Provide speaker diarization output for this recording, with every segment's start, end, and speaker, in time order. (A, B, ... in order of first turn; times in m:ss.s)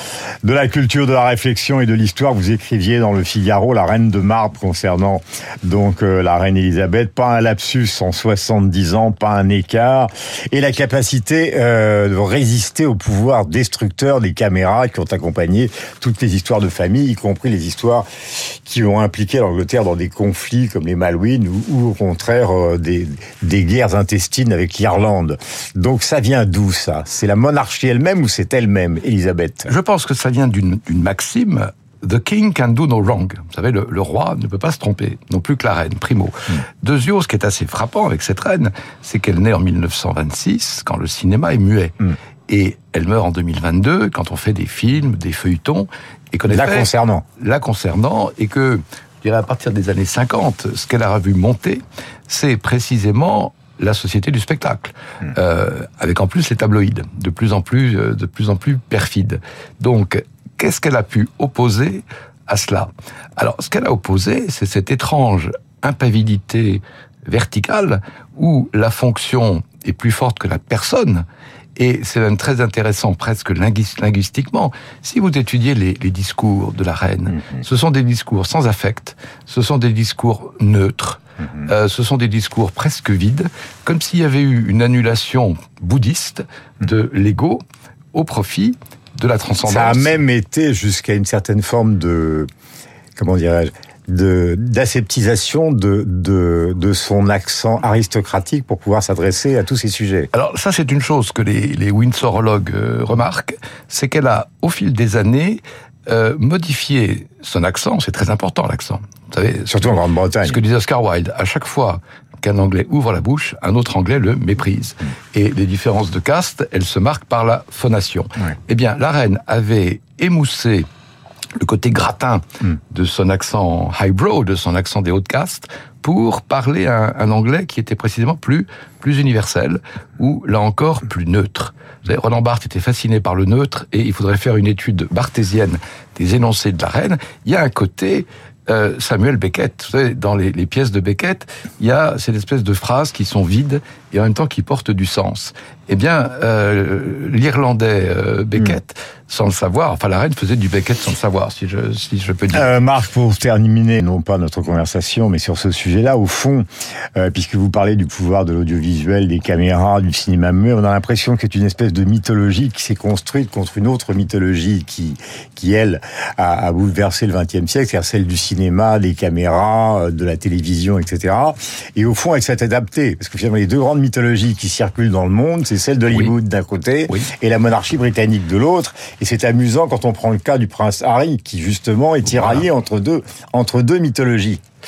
0:00.4-0:29.7 A
0:29.7-1:11.2 B
0:46.5-0:47.2 A
1:11.8-1:30.2 B
1:29.6-1:32.5 A
1:33.2-1:40.3 A
1:40.3-2:00.9 B
1:49.7-1:50.6 A
2:01.6-2:32.7 B
2:32.5-3:04.6 A
3:02.2-3:02.6 B